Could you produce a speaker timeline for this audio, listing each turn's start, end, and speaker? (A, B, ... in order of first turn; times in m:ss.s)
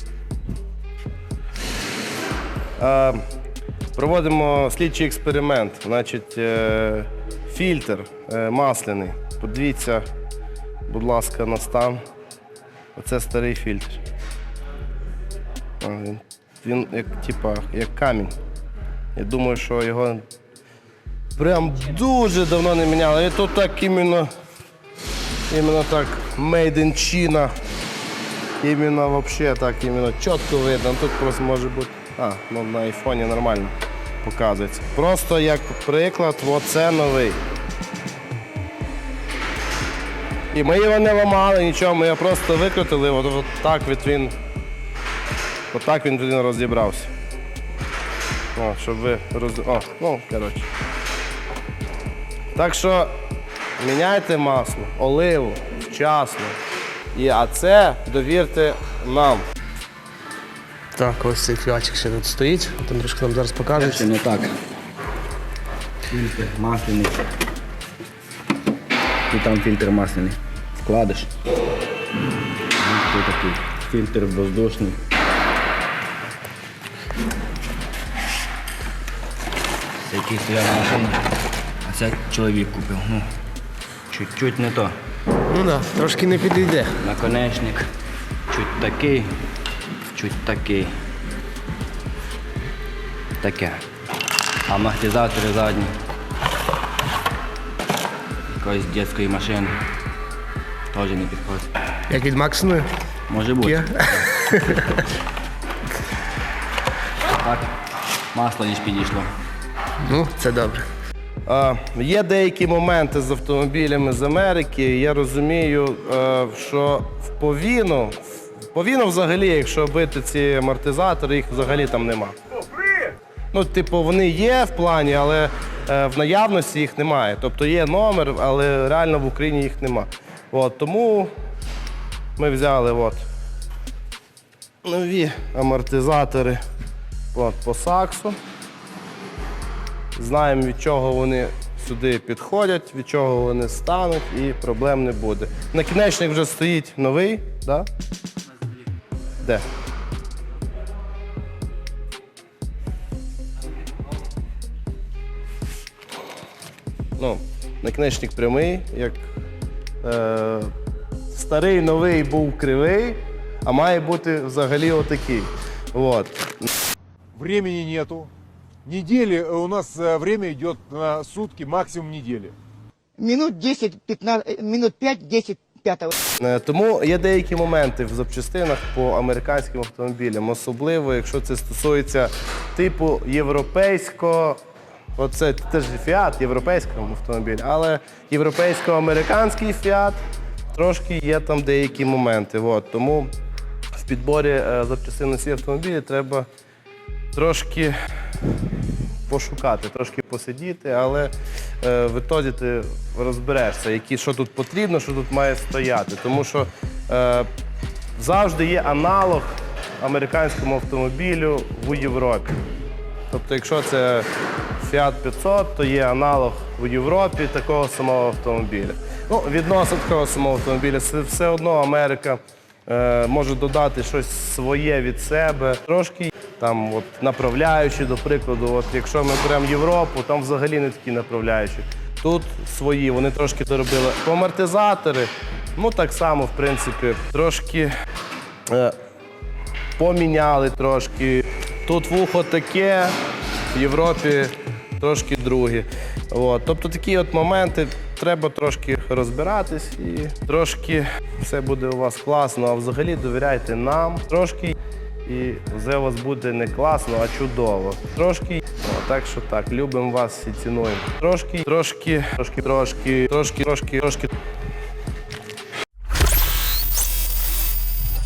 0:02.8-0:03.2 A
0:04.0-0:10.0 A
0:10.9-0:12.0 A
0:13.0-0:14.0 A
0:15.8-0:18.3 A
0:19.2-0:20.2 A
0:21.4-0:24.3 A
0:25.5-0:27.5 A
0:28.6-0:33.7 A
0:34.2-0:37.4 A
0:40.5-0:44.3 A
0:45.7-0:47.1 A
0:48.6-0:50.7 A
0:52.5-0:53.1 A
0:53.8-0:56.6 A
0:57.1-0:59.4 A
1:01.0-1:04.0 B
1:03.8-1:04.5 C
1:06.1-1:07.2 C
1:09.3-1:11.3 C
1:12.8-1:15.0 C
1:20.0-1:21.2 C
1:21.8-1:23.2 C
1:24.1-1:24.9 C
1:25.5-1:27.0 B
1:27.0-1:27.9 C
1:28.5-1:29.3 C
1:30.1-1:30.9 C
1:33.4-1:33.8 C
1:34.7-1:35.9 C
1:38.6-1:39.8 C
1:40.9-1:41.7 C
1:42.1-1:42.9 B
1:43.3-1:44.3 C
1:43.6-1:44.6 B
1:47.4-1:47.7 C
1:48.3-1:49.3 C
1:50.0-1:50.9 B
1:51.5-1:58.2 A
1:58.7-2:02.3 A
2:03.5-2:11.3 A
2:12.4-2:13.2 A
2:14.8-2:16.6 A
2:17.3-2:18.4 A
2:20.2-2:27.9 A
2:37.2-2:39.2 A
2:40.0-2:40.7 A
2:41.3-2:46.7 A
2:47.4-2:48.3 D
2:48.8-2:52.5 D
2:53.2-2:56.1 E
2:56.4-3:04.6 A
3:05.2-3:10.2 A
3:10.7-3:13.3 A
3:14.0-3:16.5 A
3:17.3-3:17.9 A
3:19.3-3:27.5 A
3:28.2-3:32.5 A
3:33.3-3:34.3 A
3:34.8-3:57.9 A
3:58.7-3:58.9 A
4:00.0-4:03.1 A
4:03.7-4:14.7 A
4:15.2-4:24.3 A